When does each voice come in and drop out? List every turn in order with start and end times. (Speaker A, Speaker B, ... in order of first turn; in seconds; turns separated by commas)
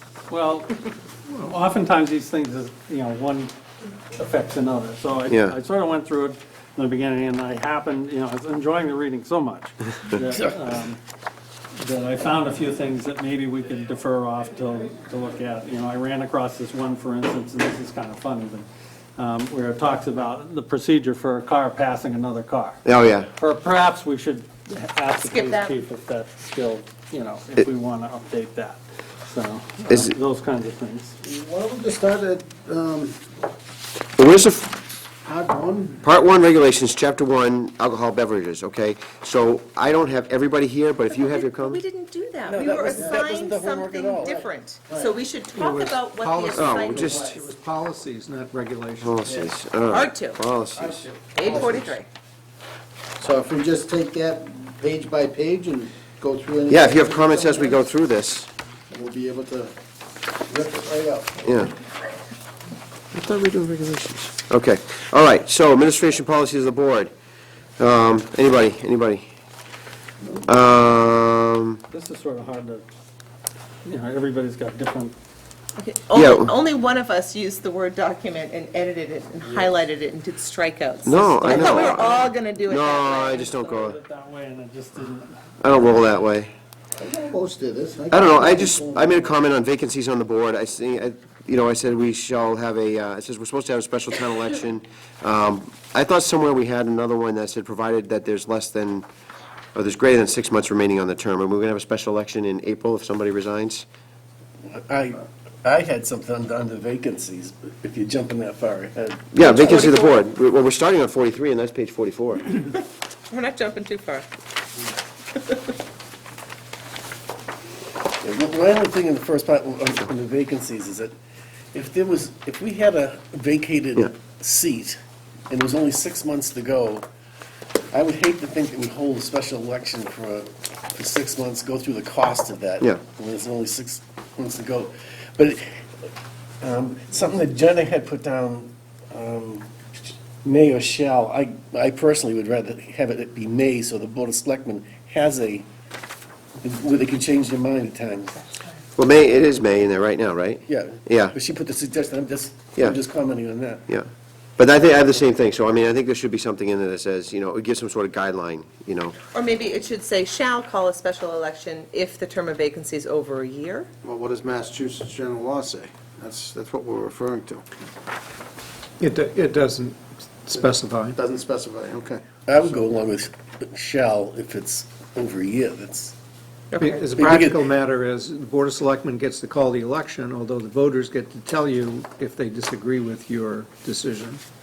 Speaker A: 0.3-3.5, Speaker A: 4.1-11.0, Speaker B: 5.3-5.6, Speaker A: 11.8-18.6, Speaker A: 19.2-31.1, Speaker B: 22.8-23.3, Speaker C: 25.2-25.7, Speaker D: 31.2-33.2, Speaker B: 34.2-34.8, Speaker D: 35.2-36.0, Speaker B: 36.0-41.8, Speaker C: 41.1-47.4, Speaker E: 42.4-44.5, Speaker D: 42.9-43.2, Speaker F: 45.5-49.2, Speaker B: 46.5-47.3, Speaker B: 49.0-51.0, Speaker D: 49.2-49.5, Speaker C: 49.9-50.4, Speaker D: 50.7-51.9, Speaker C: 51.3-52.1, Speaker D: 53.2-57.8, Speaker B: 56.7-58.5, Speaker D: 58.9-59.7, Speaker D: 60.5-61.7, Speaker B: 61.4-61.7, Speaker B: 63.1-67.1, Speaker B: 67.8-69.2, Speaker B: 70.5-71.8, Speaker A: 71.9-72.8, Speaker A: 73.8-75.1, Speaker C: 75.8-83.5, Speaker B: 76.1-76.5, Speaker B: 81.0-84.0, Speaker A: 83.4-86.1, Speaker B: 85.6-86.5, Speaker D: 87.0-89.3, Speaker B: 88.1-99.0, Speaker B: 99.7-103.8, Speaker E: 104.6-109.7, Speaker B: 109.3-112.5, Speaker C: 109.4-110.2, Speaker C: 112.6-114.3, Speaker E: 118.2-121.1, Speaker E: 121.7-125.0, Speaker E: 125.5-127.0, Speaker E: 127.9-136.1, Speaker E: 136.6-145.7, Speaker E: 146.6-148.4, Speaker C: 148.4-148.8, Speaker B: 148.9-151.3, Speaker E: 150.7-153.8, Speaker B: 152.8-153.0, Speaker B: 153.9-159.2, Speaker C: 159.3-163.9, Speaker D: 164.0-167.6, Speaker F: 169.0-171.2, Speaker D: 171.2-172.2, Speaker E: 172.4-176.1, Speaker C: 176.7-177.1, Speaker F: 176.7-184.4, Speaker E: 177.2-177.7